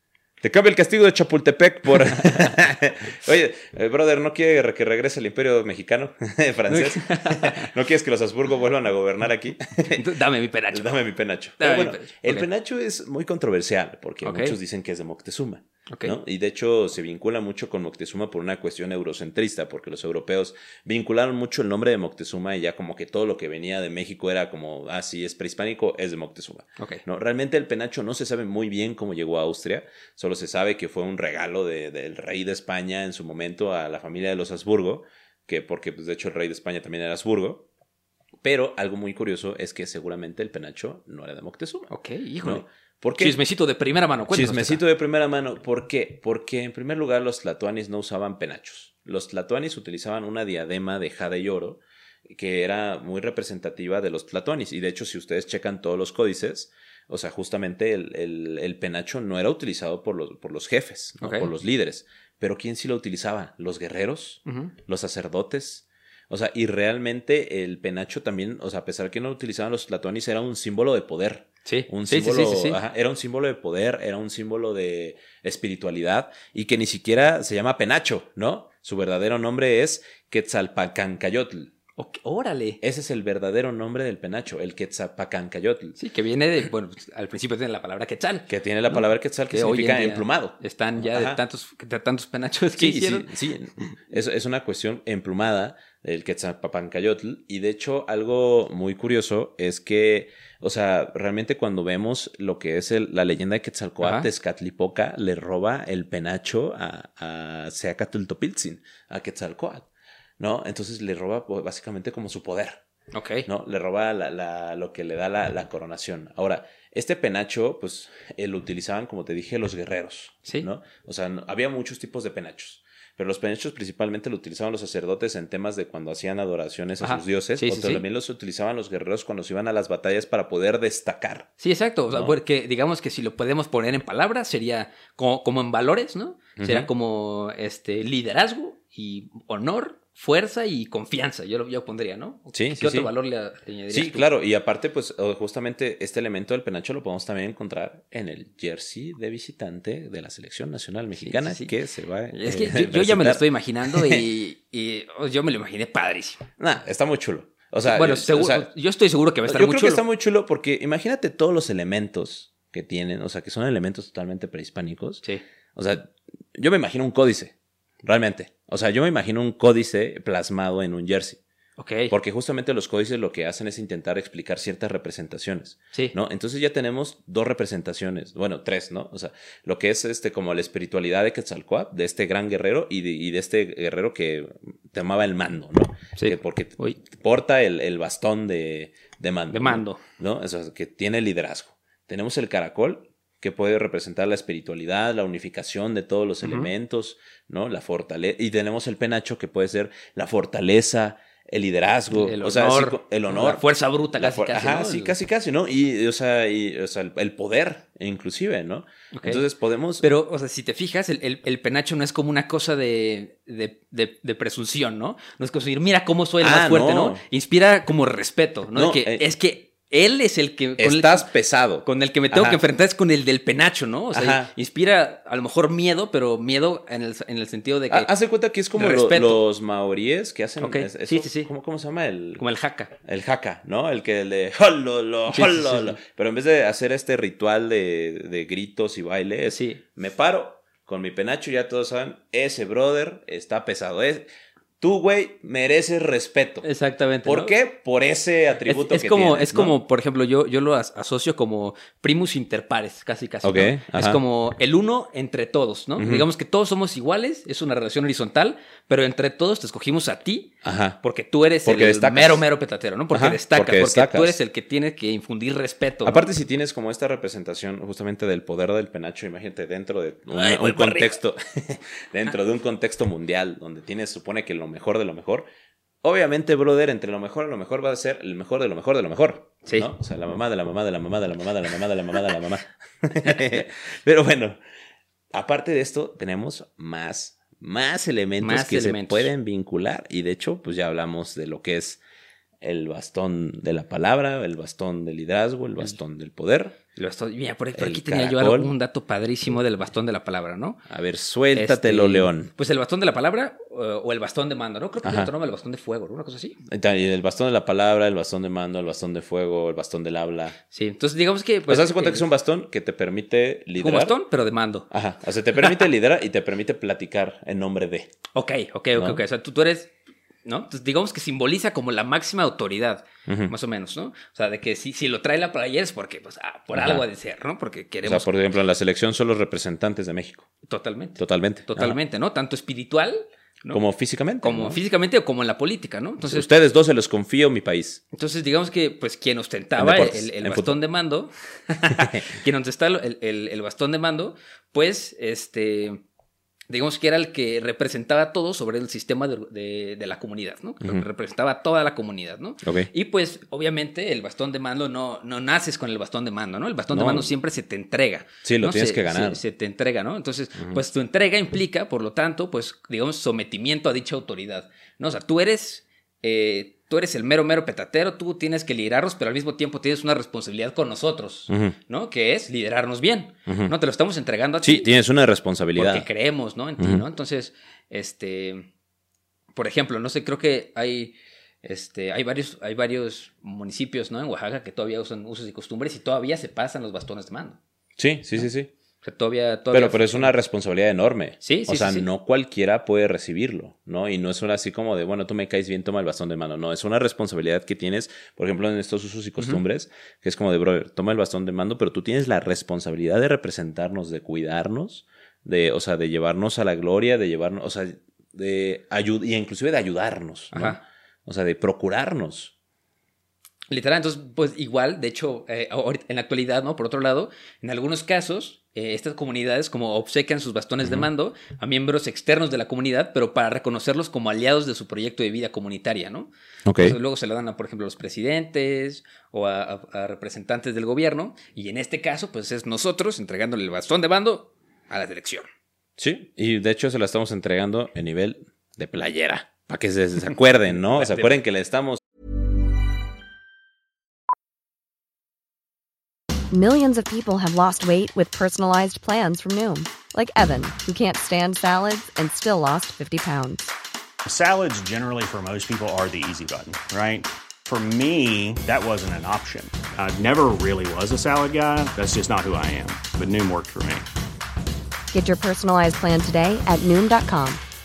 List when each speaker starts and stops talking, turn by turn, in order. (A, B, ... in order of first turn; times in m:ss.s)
0:00.4-0:10.0 A
0:02.2-0:02.5 B
0:06.7-0:07.7 B
0:09.9-0:11.0 B
0:10.7-0:37.6 A
0:11.6-0:12.5 B
0:14.2-0:14.6 B
0:15.9-0:16.2 B
0:26.8-0:27.0 B
0:38.4-0:41.9 A
0:41.9-0:42.6 B
0:42.4-0:43.4 A
0:43.2-0:44.8 B
0:44.3-1:21.7 A
1:01.2-1:01.5 B
1:04.5-1:04.7 B
1:11.6-1:12.8 B
1:22.0-1:22.8 B
1:22.8-1:26.0 A
1:26.0-1:34.0 B
1:28.5-1:31.4 A
1:32.8-1:49.9 A
1:44.0-1:44.3 B
1:50.4-1:52.8 A
1:53.1-1:53.5 B
1:53.4-2:11.5 A
2:07.0-2:08.0 B
2:11.6-2:24.3 B
2:12.1-2:12.4 A
2:16.6-2:16.9 A
2:22.5-2:23.1 A
2:23.9-2:33.4 A
2:31.2-2:31.7 B
2:32.3-2:36.5 B
2:33.9-2:34.2 A
2:36.6-2:38.7 A
2:37.8-2:40.0 B
2:39.4-2:45.2 A
2:45.8-2:51.4 A
2:51.8-2:52.1 B
2:52.1-3:23.6 A
3:06.2-3:07.0 B
3:09.5-3:10.0 B
3:16.4-3:16.7 B
3:22.1-3:25.2 B
3:24.2-3:30.0 A
3:29.1-3:29.4 B
3:30.0-3:41.3 B
3:36.4-3:37.2 A
3:38.7-3:39.2 A
3:40.8-3:42.6 A
3:41.8-3:48.1 B
3:44.1-3:44.5 A
3:47.9-3:52.4 A
3:48.8-3:49.4 B
3:50.6-3:51.5 B
3:52.4-3:52.9 B
3:53.0-4:04.3 A
3:55.3-3:56.0 B
3:59.5-3:59.8 B
4:04.8-4:06.6 A
4:06.6-4:07.5 B
4:07.2-4:09.8 A
4:08.7-4:26.2 B
4:13.4-4:14.2 A
4:16.0-4:16.2 A
4:20.6-4:21.0 A
4:21.6-4:22.4 A
4:23.1-4:24.4 A
4:26.0-4:35.4 A
4:30.3-4:31.2 B
4:36.0-4:44.6 A
4:39.6-4:39.9 B
4:45.3-4:52.0 A
4:48.4-4:49.3 B
4:52.6-4:56.8 A
4:57.0-5:00.8 B
4:57.7-4:58.7 A
5:00.9-5:02.5 A
5:01.5-5:06.6 B
5:05.0-5:05.3 A
5:06.7-5:10.6 A
5:10.7-5:12.2 B
5:11.7-5:14.1 A
5:13.8-5:14.9 B
5:14.9-5:18.1 A
5:15.6-5:15.8 B
5:18.3-5:19.9 B
5:18.9-5:19.2 A
5:20.4-5:28.3 B
5:23.3-5:23.5 A
5:26.7-5:27.0 A
5:28.0-5:30.5 A
5:30.6-5:33.8 B
5:31.2-5:32.0 A
5:33.7-5:34.8 A
5:34.4-5:36.5 B
5:36.2-5:38.0 A
5:38.1-5:46.0 B
5:39.8-5:40.8 A
5:41.9-5:42.2 A
5:46.7-6:14.9 B
5:52.6-5:52.9 A
5:56.9-5:57.3 A
5:58.4-5:59.4 A
6:11.5-6:11.7 A
6:13.5-6:13.7 A
6:14.6-6:16.1 A
6:15.8-6:18.7 B
6:16.8-6:17.0 A
6:19.5-6:27.6 B
6:28.0-6:28.7 A
6:29.0-6:30.3 B
6:29.7-6:52.5 A
6:31.4-6:32.1 B
6:50.5-6:50.8 B
6:53.7-7:15.4 B
7:06.6-7:07.0 A
7:16.0-7:22.0 A
7:20.9-7:21.3 B
7:26.5-7:33.7 C
7:34.2-7:44.1 D
7:45.1-7:47.6 C